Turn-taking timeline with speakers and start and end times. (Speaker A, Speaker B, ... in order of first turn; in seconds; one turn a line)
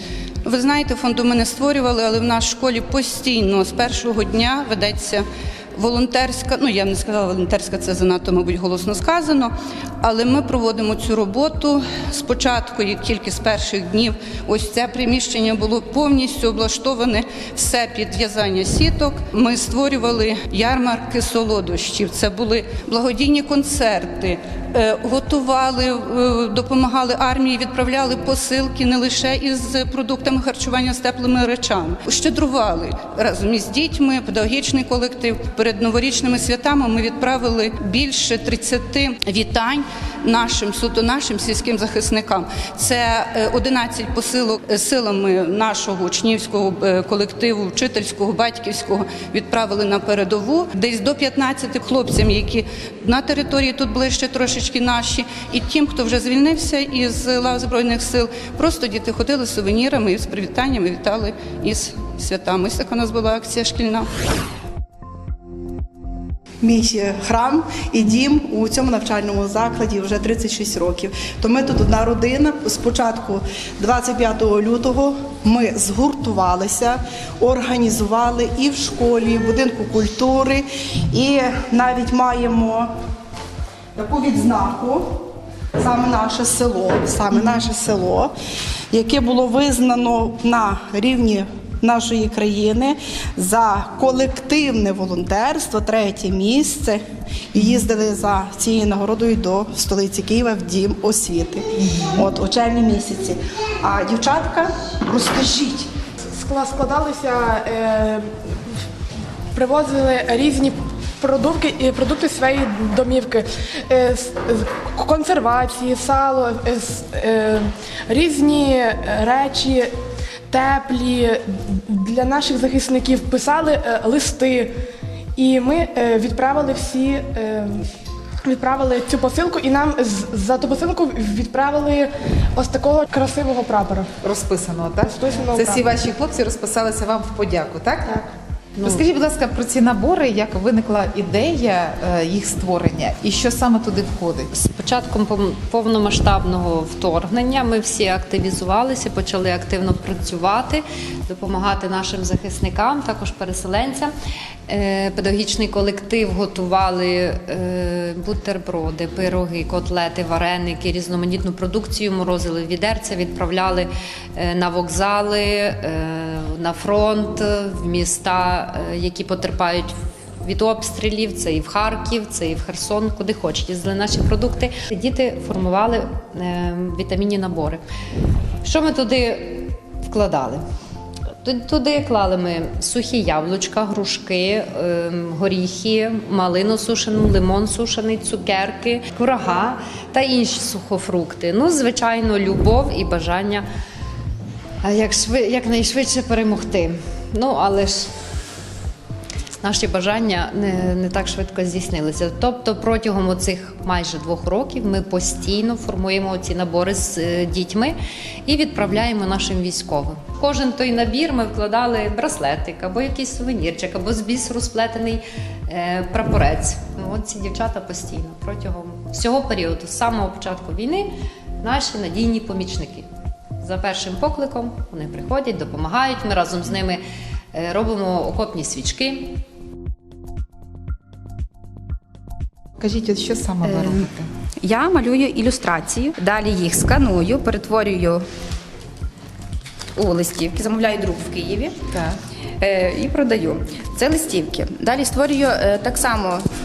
Speaker A: 0.4-64.1
Speaker B: 66.6-82.9
Speaker B: 84.0-85.2
Speaker B: 85.8-88.3
Speaker B: 88.9-97.0
Speaker B: 97.5-105.9
Speaker C: 101.8-102.2
Speaker D: 106.4-108.2
Speaker D: 109.5-113.4
Speaker D: 113.9-119.9
Speaker D: 120.5-121.3
Speaker D: 122.1-124.7
Speaker D: 125.4-127.8
Speaker D: 128.5-134.1
Speaker C: 134.2-138.3
Speaker D: 135.1-135.8
Speaker E: 138.8-139.1
Speaker C: 138.8-144.5
Speaker E: 144.5-154.1
Speaker E: 154.7-177.8
Speaker E: 178.6-180.6
Speaker E: 181.4-193.7
Speaker E: 194.8-198.1
Speaker E: 199.6-223.1
Speaker E: 223.6-229.4
Speaker C: 232.8-234.3
Speaker F: 234.6-238.2
Speaker F: 239.9-241.8
Speaker C: 241.9-242.2
Speaker F: 242.6-246.4